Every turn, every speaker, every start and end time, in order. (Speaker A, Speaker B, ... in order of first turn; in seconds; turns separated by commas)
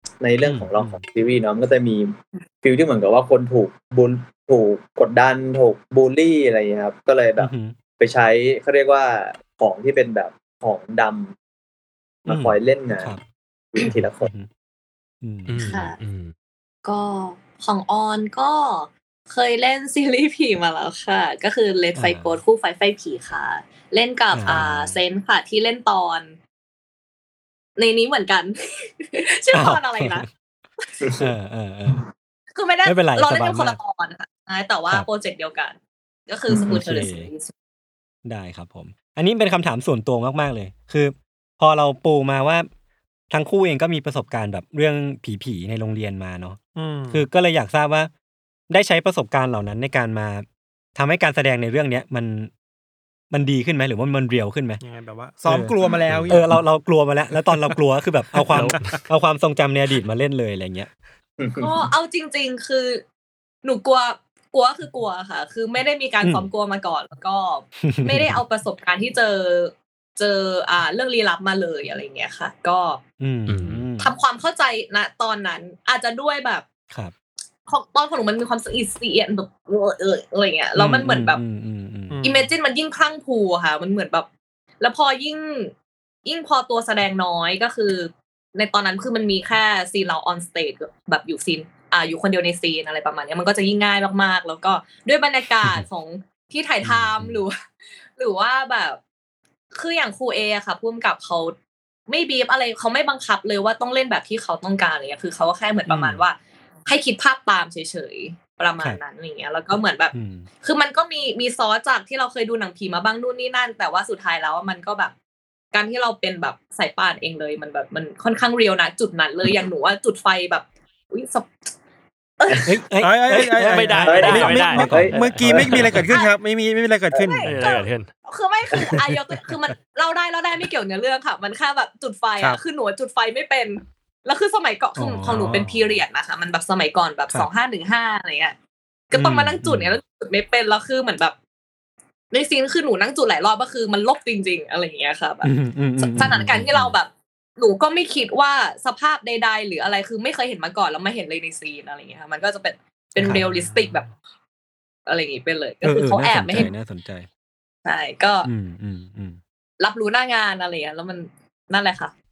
Speaker A: 0.2-11.3, Speaker B: 0.4-1.0, Speaker B: 7.4-7.8, Speaker B: 12.3-13.2, Speaker A: 12.3-13.1, Speaker A: 13.7-14.3, Speaker B: 13.8-14.5, Speaker B: 15.2-15.7, Speaker C: 15.5-16.3, Speaker D: 15.6-16.0, Speaker D: 16.9-26.4, Speaker B: 22.0-22.4, Speaker B: 24.3-25.0, Speaker D: 27.8-30.3, Speaker B: 29.5-30.3, Speaker A: 31.0-31.3, Speaker B: 31.2-32.0, Speaker D: 32.5-35.8, Speaker B: 32.9-33.8, Speaker D: 36.3-37.5, Speaker A: 36.5-36.8, Speaker B: 36.7-37.3, Speaker B: 38.2-42.7, Speaker B: 43.3-46.6, Speaker E: 46.8-47.2, Speaker B: 47.1-48.1, Speaker B: 48.7-52.5, Speaker B: 53.3-54.8, Speaker E: 54.8-56.6, Speaker B: 55.5-60.9, Speaker E: 58.4-58.7, Speaker C: 58.5-59.0, Speaker A: 61.4-61.9, Speaker D: 61.6-63.0, Speaker D: 63.6-73.0, Speaker B: 66.2-66.5, Speaker B: 67.8-68.4, Speaker B: 73.2-74.1, Speaker C: 73.5-73.8, Speaker D: 74.0-76.7, Speaker D: 77.7-81.4, Speaker B: 80.8-82.2, Speaker E: 82.1-82.5, Speaker D: 82.2-84.3, Speaker D: 84.8-85.7, Speaker D: 86.2-97.6, Speaker B: 96.8-97.4, Speaker D: 98.2-99.0, Speaker D: 99.7-101.5, Speaker D: 102.1-115.1, Speaker B: 105.9-106.2, Speaker B: 110.1-110.5, Speaker D: 115.7-121.7, Speaker D: 122.4-122.7, Speaker B: 122.7-125.9, Speaker E: 123.0-127.5, Speaker C: 123.6-125.9, Speaker A: 124.0-126.0, Speaker D: 127.2-138.6, Speaker C: 127.5-128.1, Speaker B: 135.0-136.0, Speaker D: 139.1-141.3, Speaker B: 139.1-140.0, Speaker D: 142.3-154.1, Speaker B: 145.4-146.9, Speaker B: 153.2-153.4, Speaker E: 153.3-154.1, Speaker D: 155.1-156.7, Speaker B: 155.8-157.3, Speaker D: 157.8-158.5, Speaker B: 158.4-159.4, Speaker D: 159.8-162.1